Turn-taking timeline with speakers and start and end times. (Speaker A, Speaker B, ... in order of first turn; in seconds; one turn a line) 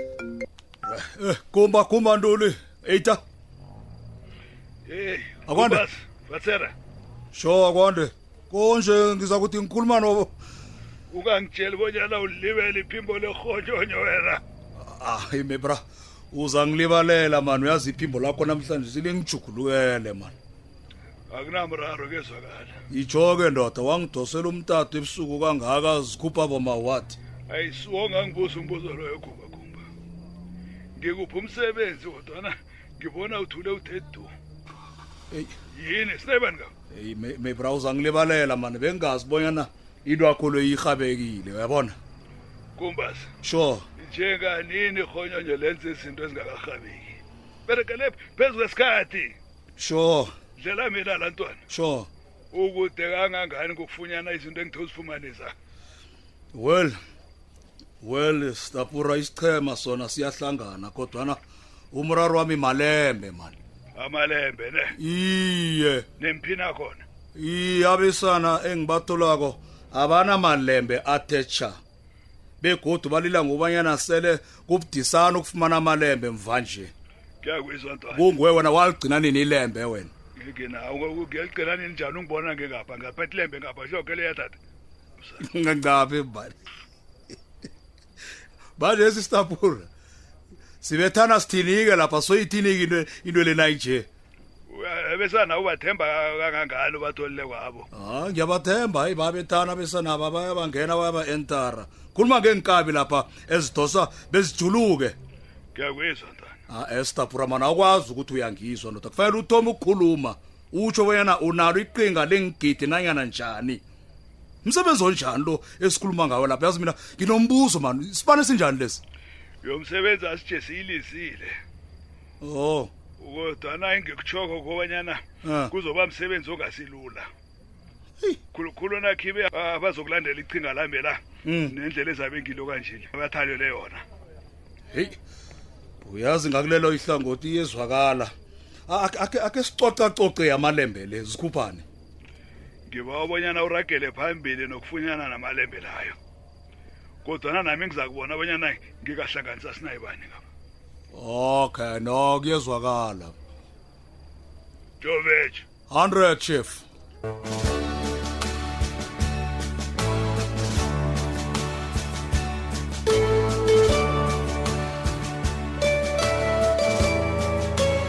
Speaker A: 0.8-3.2
Speaker B: 4.9-6.7
Speaker A: 5.5-5.8
Speaker A: 7.3-10.3
Speaker B: 11.1-14.4
Speaker A: 14.8-20.3
Speaker B: 21.3-22.8
Speaker A: 22.9-27.2
Speaker B: 27.5-29.8
Speaker B: 31.0-34.3
Speaker A: 35.3-35.5
Speaker B: 35.7-36.7
Speaker A: 36.9-42.0
Speaker B: 42.8-43.3
Speaker A: 43.4-43.9
Speaker B: 44.0-49.3
Speaker A: 49.8-50.3
Speaker B: 50.6-51.6
Speaker A: 51.7-52.1
Speaker B: 52.5-55.5
Speaker A: 56.5-57.0
Speaker A: 58.0-61.4
Speaker A: 61.9-63.6
Speaker B: 64.0-65.0
Speaker A: 65.0-66.1
Speaker B: 66.2-67.0
Speaker A: 67.3-71.8
Speaker A: 72.6-76.9
Speaker B: 77.4-78.4
Speaker A: 78.2-80.1
Speaker B: 80.4-84.6
Speaker A: 85.4-86.5
Speaker A: 88.8-89.9
Speaker A: 90.8-94.1
Speaker B: 94.7-97.8
Speaker A: 97.9-105.2
Speaker B: 105.7-106.6
Speaker A: 106.7-113.8
Speaker A: 114.6-119.0
Speaker B: 119.6-121.5
Speaker A: 122.4-122.9
Speaker B: 123.2-127.3
Speaker A: 125.4-125.7
Speaker B: 128.5-134.0
Speaker A: 131.4-131.7
Speaker A: 134.9-135.2
Speaker A: 136.0-138.3
Speaker A: 138.9-141.8
Speaker B: 142.9-146.2
Speaker B: 147.2-150.4
Speaker A: 151.1-153.3
Speaker B: 155.0-155.7
Speaker A: 155.9-156.8